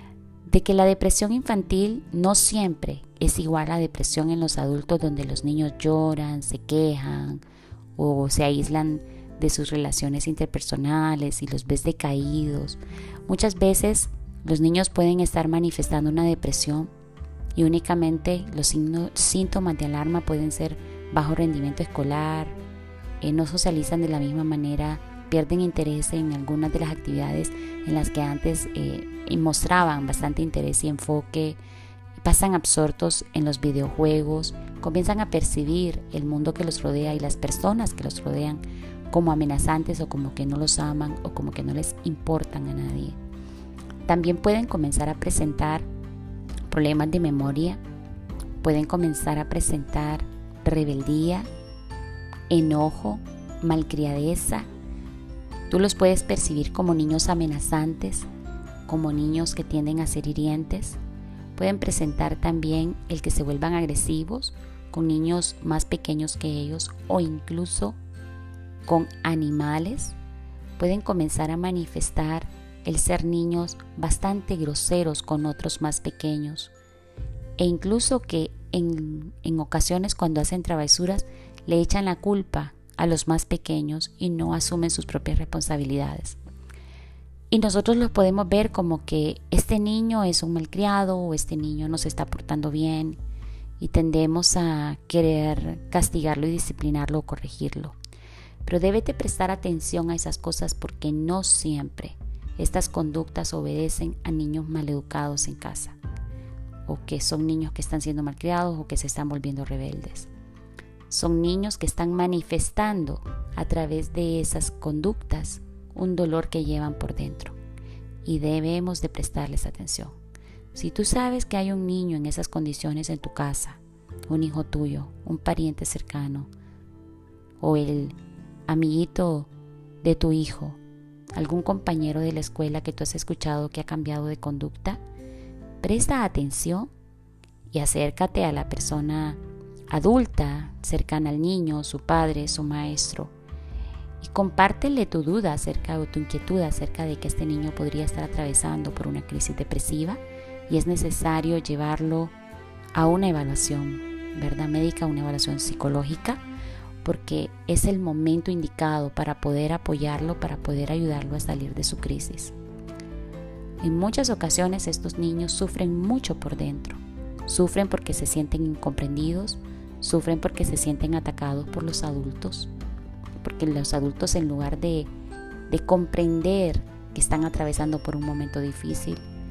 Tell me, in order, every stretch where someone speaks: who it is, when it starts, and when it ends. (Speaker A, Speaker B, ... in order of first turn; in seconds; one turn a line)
Speaker A: 0.5-7.4
Speaker A: 8.0-16.9
Speaker A: 17.6-22.6
Speaker A: 23.2-31.6
Speaker A: 32.2-43.2
Speaker A: 44.1-45.9
Speaker A: 46.7-47.8
Speaker A: 48.6-51.5
Speaker A: 52.5-54.7
Speaker A: 55.7-58.3
Speaker A: 58.9-61.0
Speaker A: 61.6-68.0
Speaker A: 68.9-70.2
Speaker A: 70.8-76.7
Speaker A: 77.6-86.4
Speaker A: 87.5-93.2
Speaker A: 93.8-98.0
Speaker A: 98.7-106.0
Speaker A: 106.9-110.3
Speaker A: 111.1-117.6
Speaker A: 118.2-120.2
Speaker A: 120.7-126.5
Speaker A: 127.6-128.2
Speaker A: 128.7-129.5
Speaker A: 130.0-130.8
Speaker A: 131.4-135.0
Speaker A: 135.8-136.9
Speaker A: 137.7-143.3
Speaker A: 144.2-152.3
Speaker A: 152.9-156.4
Speaker A: 157.0-162.5
Speaker A: 163.8-172.7
Speaker A: 173.4-175.1
Speaker A: 175.7-179.2